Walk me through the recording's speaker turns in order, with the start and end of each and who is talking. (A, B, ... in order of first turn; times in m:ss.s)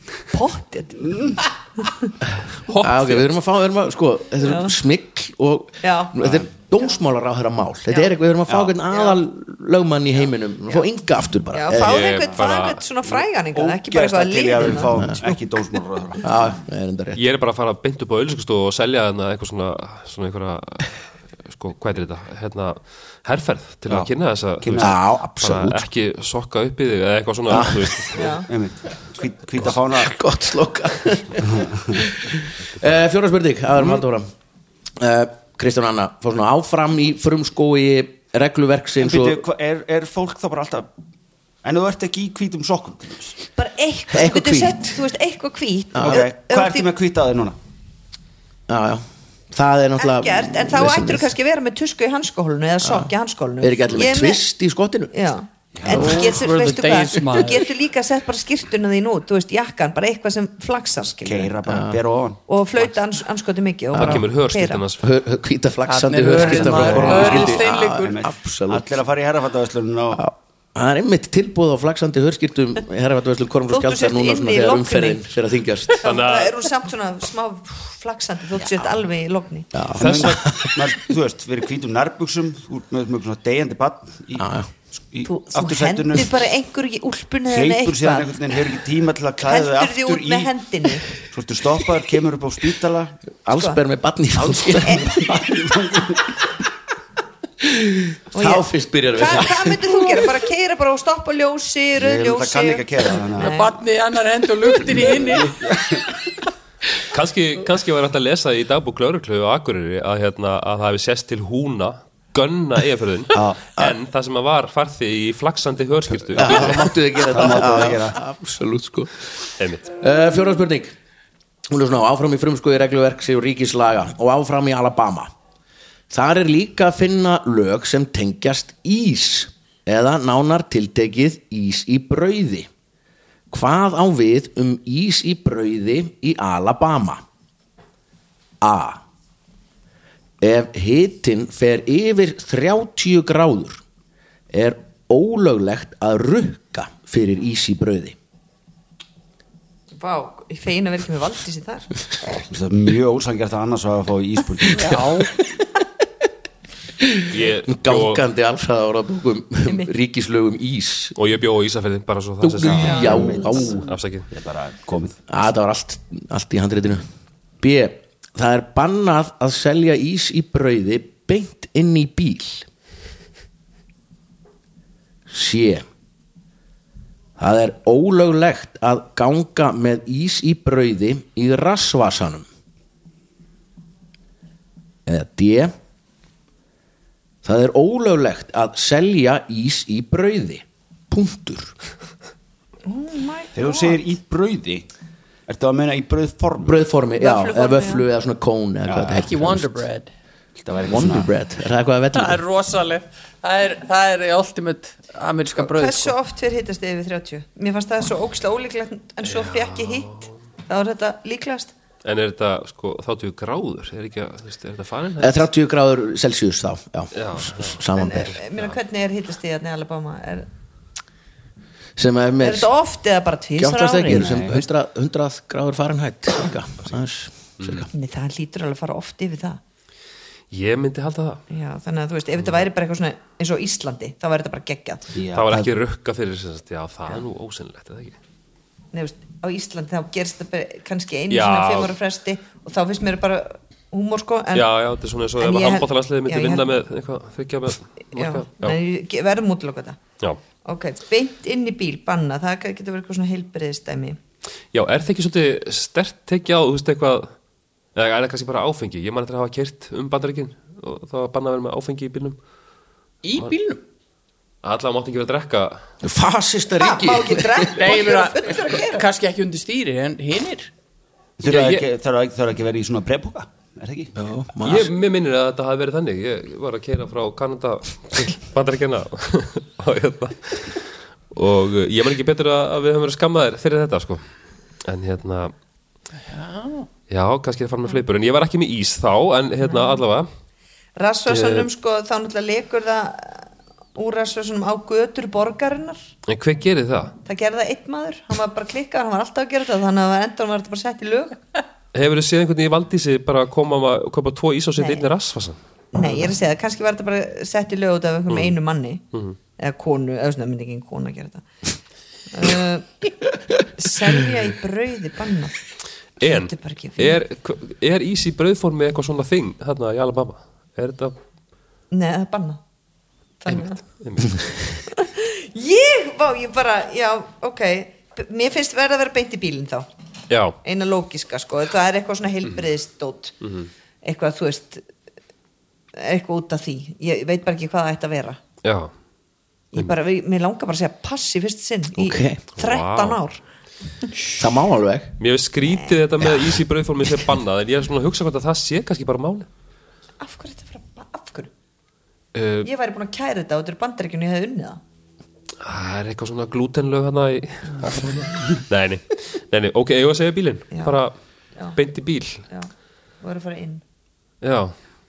0:00.3-0:02.1 A
0:01.0-0:01.4 B
0:02.2-0:12.0 C
0:02.7-0:03.2 D
0:04.4-0:04.7 A
0:05.8-0:06.2 A
0:08.5-0:08.8 B
0:11.5-0:15.0 A
0:11.7-0:12.8 E
0:13.1-0:16.3 B
0:15.0-0:15.2 C
0:16.2-0:17.2 C
0:17.1-0:28.4 E
0:24.6-0:25.0 B
0:24.8-0:25.9 C
0:27.5-0:28.1 C
0:28.1-0:28.4 A
0:28.4-0:30.1 B
0:30.0-0:34.3 C
0:31.4-0:32.1 B
0:35.0-0:39.4 C
0:39.0-0:40.9 B
0:41.6-0:43.4 B
0:43.6-0:46.9 A
0:44.1-0:45.0 C
0:45.9-0:46.2 C
0:46.0-0:47.6 B
0:48.7-0:51.3 C
0:50.0-0:54.4 A
0:52.8-0:55.1 C
0:55.1-1:01.5 A
0:55.8-0:56.3 B
0:55.9-0:57.7 D
1:01.2-1:02.4 B
1:01.7-1:02.0 C
1:02.5-1:04.8 A
1:03.9-1:05.0 E
1:03.9-1:04.2 C
1:05.0-1:08.9 C
1:05.8-1:08.2 D
1:06.5-1:10.2 B
1:10.2-1:16.1 C
1:13.7-1:15.3 A
1:16.0-1:19.9 A
1:16.0-1:16.7 E
1:19.7-1:20.9 C
1:19.9-1:26.4 B
1:20.0-1:20.3 E
1:24.4-1:24.7 C
1:25.2-1:28.5 A
1:27.5-1:30.5 B
1:29.4-1:31.2 A
1:31.3-1:33.2 B
1:33.4-1:35.6 C
1:33.5-1:33.8 A
1:34.4-1:36.4 B
1:34.8-1:35.1 A
1:37.6-1:40.3 C
1:38.3-1:43.8 A
1:42.0-1:43.6 B
1:43.4-1:45.6 D
1:45.2-1:46.1 B
1:47.0-1:56.9 E
1:53.3-1:53.6 B
1:56.4-2:00.9 C
1:56.4-1:56.7 B
1:57.2-1:58.2 B
1:59.6-1:59.9 E
2:01.7-2:05.3 C
2:06.1-2:12.7 C
2:13.5-2:17.2 C
2:18.6-2:19.0 C
2:20.4-2:23.8 C
2:24.5-2:28.2 C
2:29.9-2:32.0 A
2:32.5-2:35.0 B
2:34.7-2:35.3 D
2:34.9-2:35.8 C
2:37.0-2:41.1 C
2:37.3-2:38.2 E
2:41.2-2:44.3 E
2:42.4-2:43.8 C
2:42.6-2:43.8 B
2:42.8-2:43.8 A
2:44.3-2:45.2 B
2:45.3-2:47.1 C
2:47.6-2:52.7 C
2:55.3-2:55.8 C
2:57.4-3:02.4 C
3:05.0-3:05.7 C
3:07.4-3:11.7 C
3:12.8-3:14.0 A
3:13.5-3:14.8 B
3:15.5-3:16.9 B
3:16.6-3:19.8 C
3:17.2-3:18.0 A
3:18.8-3:19.2 B
3:19.1-3:20.1 D
3:20.6-3:21.3 B
3:20.9-3:22.4 C
3:22.1-3:26.1 D
3:25.6-3:31.7 A
3:29.2-3:30.3 E
3:32.0-3:35.4 E
3:35.2-3:38.4 C
3:37.1-3:38.8 E
3:38.0-3:40.5 A
3:42.0-3:42.7 C
3:42.4-3:44.4 A
3:43.6-3:47.9 C
3:44.1-3:44.6 B
3:47.6-3:47.9 E
3:47.9-3:49.6 A
3:50.5-3:51.4 E
3:51.5-3:55.2 A
3:55.1-3:55.7 B
3:55.3-3:58.2 E
3:58.9-4:04.6 A
4:01.3-4:01.9 E
4:04.5-4:08.8 E
4:05.4-4:06.7 A
4:08.1-4:10.0 A
4:10.6-4:14.2 A
4:14.7-4:17.3 E
4:17.9-4:22.4 E
4:23.2-4:23.8 D
4:24.6-4:25.8 E
4:26.0-4:27.9 C
4:26.8-4:29.0 A
4:27.7-4:30.7 D
4:31.4-4:34.1 B
4:31.4-4:31.8 E
4:34.2-4:34.9 C
4:34.6-4:44.2 E
4:44.8-4:45.5 E
4:46.2-4:46.9 D
4:47.1-4:50.3 E
4:49.7-4:50.0 A
4:51.0-4:56.0 A
4:51.3-4:51.7 E
4:56.3-4:57.2 E
4:57.2-5:01.4 A
5:01.9-5:05.6 E
5:04.8-5:05.1 A
5:05.9-5:09.0 A
5:08.3-5:08.5 E
5:09.6-5:11.4 A
5:12.3-5:12.9 A
5:13.7-5:15.6 A
5:16.2-5:21.2 E
5:16.2-5:17.2 A
5:21.9-5:22.6 A
5:23.4-5:23.8 A
5:23.5-5:24.6 E
5:24.9-5:29.9 A
5:30.3-5:30.6 E
5:30.6-5:33.3 A
5:33.4-5:33.7 E
5:34.0-5:34.8 A
5:36.0-5:38.4 A
5:38.6-5:38.9 E
5:39.7-5:43.4 A
5:41.9-5:42.4 C
5:42.6-5:43.2 E
5:44.4-5:45.1 C
5:45.2-5:49.5 E
5:45.7-5:46.0 A
5:46.2-5:46.5 C
5:50.2-5:51.5 A
5:52.3-5:52.7 E
5:52.6-5:54.8 A
5:55.6-6:01.1 E
6:00.7-6:01.0 A
6:01.7-6:02.4 E
6:03.2-6:03.8 A
6:04.4-6:04.7 E